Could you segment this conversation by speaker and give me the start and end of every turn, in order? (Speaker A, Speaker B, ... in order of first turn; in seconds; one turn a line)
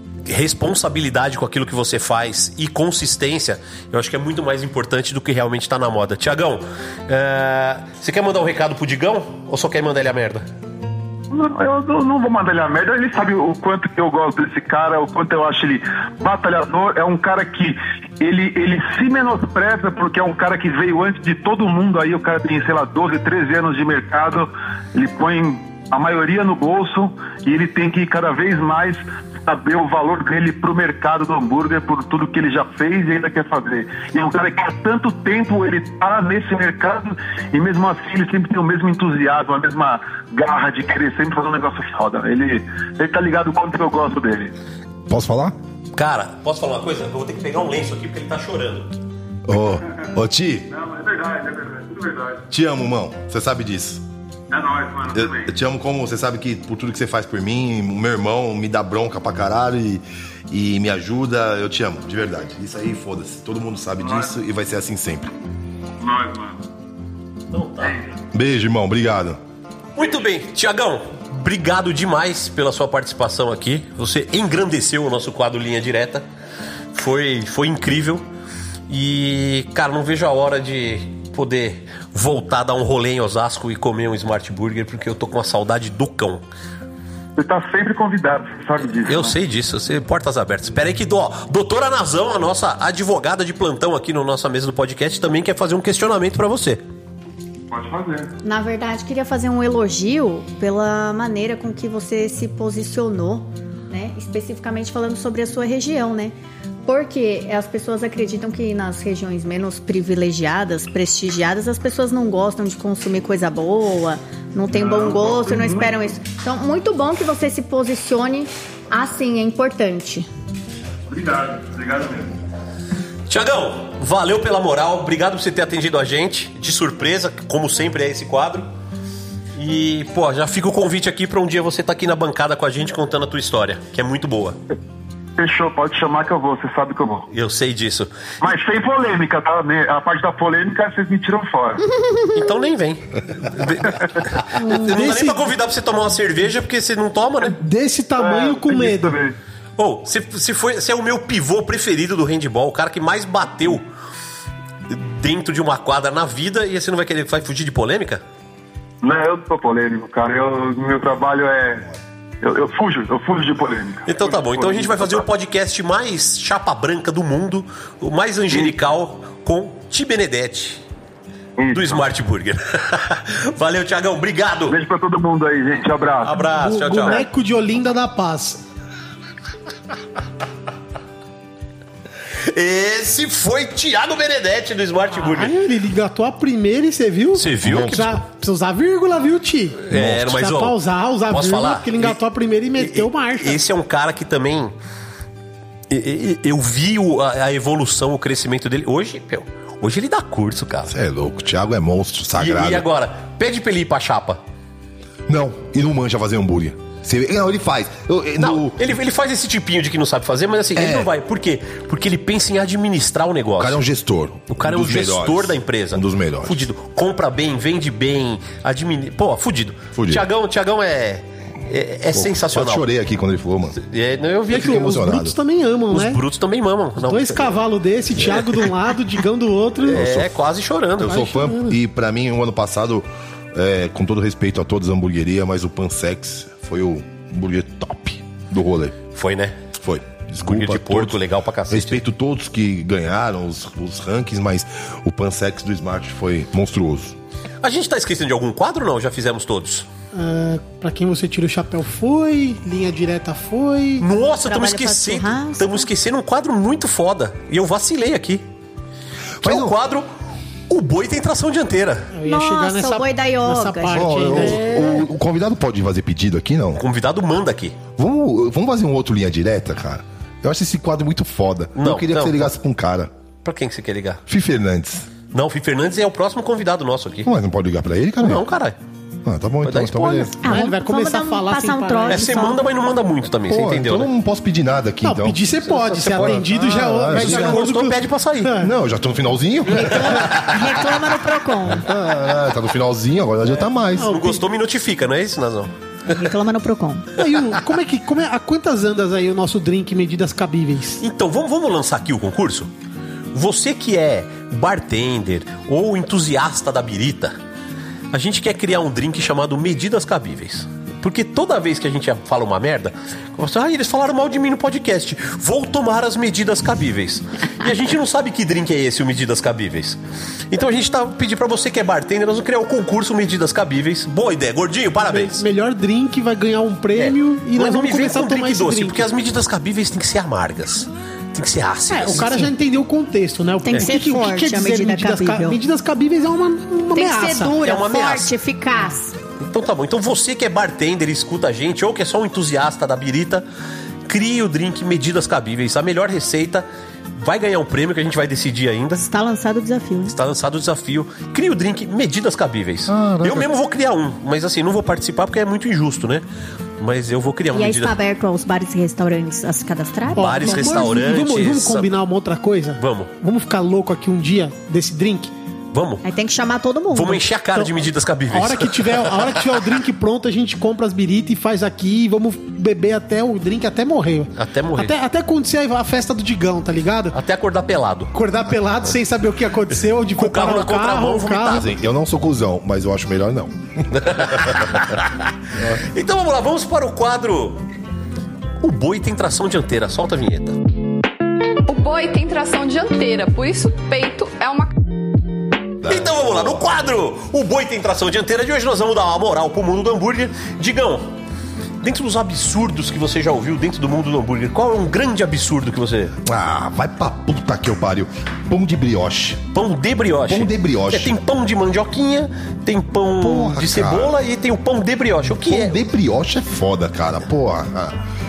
Speaker A: 0.3-10.4
Speaker B: 11.3-44.5
Speaker C: 45.1-45.5
Speaker A: 45.9-48.9
Speaker C: 49.5-50.7
Speaker B: 50.7-52.5
Speaker C: 52.5-54.0
Speaker B: 54.5-55.5
Speaker C: 55.1-65.3
Speaker B: 64.0-64.3
Speaker B: 66.0-66.6
Speaker A: 67.5-68.0
Speaker B: 67.8-68.1
Speaker C: 68.3-69.4
Speaker A: 70.0-76.2
Speaker A: 76.9-78.2
Speaker A: 78.9-86.4
Speaker B: 87.3-89.3
Speaker A: 89.0-96.8
Speaker B: 97.7-98.3
Speaker D: 98.4-120.3
Speaker B: 114.7-116.0
Speaker B: 121.1-122.3
Speaker A: 123.3-128.7
Speaker A: 129.6-134.6
Speaker B: 135.4-137.3
Speaker A: 137.3-138.1
Speaker B: 138.4-141.8
Speaker A: 142.3-147.6
Speaker E: 144.6-145.4
Speaker E: 147.6-149.2
Speaker B: 148.2-149.3
Speaker A: 149.8-153.8
Speaker A: 154.9-158.2
Speaker B: 159.0-161.9
Speaker B: 162.4-165.3
Speaker A: 164.1-170.8
Speaker B: 171.6-172.0
Speaker A: 171.7-174.8
Speaker B: 174.7-176.5
Speaker A: 176.2-177.3
Speaker E: 176.5-178.6
Speaker A: 182.4-185.5
Speaker E: 185.1-193.6
Speaker A: 187.3-188.2
Speaker C: 187.6-188.0
Speaker A: 189.8-192.2
Speaker C: 189.9-190.3
Speaker A: 192.7-194.7
Speaker A: 195.9-200.9
Speaker C: 200.9-202.8
Speaker A: 202.4-204.4
Speaker C: 205.3-208.8
Speaker A: 208.4-213.8
Speaker C: 210.8-211.1
Speaker C: 213.6-216.7
Speaker A: 214.5-222.8
Speaker C: 219.9-220.2
Speaker C: 222.1-223.8
Speaker A: 223.8-224.9
Speaker E: 224.5-226.2
Speaker C: 224.5-225.3
Speaker A: 225.9-227.6
Speaker E: 227.0-230.0
Speaker A: 228.2-228.6
Speaker A: 229.8-231.3
Speaker C: 229.9-230.3
Speaker C: 231.0-239.0
Speaker E: 231.1-231.8
Speaker A: 239.1-239.6
Speaker C: 239.8-247.2
Speaker A: 240.4-242.0
Speaker A: 247.6-249.8
Speaker E: 250.1-254.1
Speaker A: 254.0-258.4
Speaker D: 254.5-255.9
Speaker C: 259.4-259.7
Speaker A: 259.4-260.1
Speaker A: 260.7-262.1
Speaker E: 262.1-265.0
Speaker D: 262.2-264.6
Speaker C: 263.9-266.8
Speaker A: 266.8-267.8
Speaker C: 268.0-273.1
Speaker A: 271.8-272.5
Speaker A: 273.4-274.2
Speaker C: 274.3-275.1
Speaker A: 275.3-277.3
Speaker C: 277.2-278.4
Speaker A: 278.2-278.8
Speaker C: 279.2-280.4
Speaker A: 279.6-280.3
Speaker E: 280.4-282.3
Speaker D: 280.4-282.6
Speaker A: 282.1-284.1
Speaker C: 283.5-285.4
Speaker E: 285.0-288.7
Speaker A: 285.7-288.6
Speaker C: 286.1-287.7
Speaker C: 288.6-290.3
Speaker D: 289.7-291.9
Speaker A: 290.1-290.6
Speaker C: 291.8-294.1
Speaker E: 293.9-294.4
Speaker A: 294.0-295.7
Speaker D: 296.1-297.1
Speaker E: 297.2-301.0
Speaker A: 301.0-302.7
Speaker A: 303.3-307.4
Speaker A: 308.1-320.0
Speaker A: 320.5-325.4
Speaker E: 325.0-329.1
Speaker A: 326.9-332.5
Speaker E: 331.9-337.6
Speaker D: 333.6-335.6
Speaker D: 336.9-339.1
Speaker A: 337.6-338.3
Speaker A: 339.4-343.4
Speaker A: 344.1-349.1
Speaker D: 349.0-350.1
Speaker A: 350.1-356.2
Speaker C: 352.9-353.5
Speaker A: 356.8-357.9
Speaker D: 357.5-360.9
Speaker A: 360.1-361.9
Speaker E: 360.1-365.3
Speaker A: 362.8-363.1
Speaker A: 365.7-366.0
Speaker D: 366.0-367.2
Speaker A: 366.9-369.6
Speaker E: 368.3-377.2
Speaker A: 374.4-374.9
Speaker A: 377.1-378.1
Speaker E: 378.1-381.6
Speaker A: 380.1-381.7
Speaker C: 381.5-384.6
Speaker A: 383.9-385.3
Speaker C: 385.6-385.9
Speaker A: 385.8-387.6
Speaker A: 388.6-390.6
Speaker F: 391.7-394.7
Speaker C: 395.8-396.6
Speaker A: 395.9-401.1
Speaker A: 401.8-406.1
Speaker C: 406.2-409.5
Speaker A: 409.5-415.8
Speaker C: 410.3-411.1
Speaker C: 413.2-414.1
Speaker C: 415.3-418.0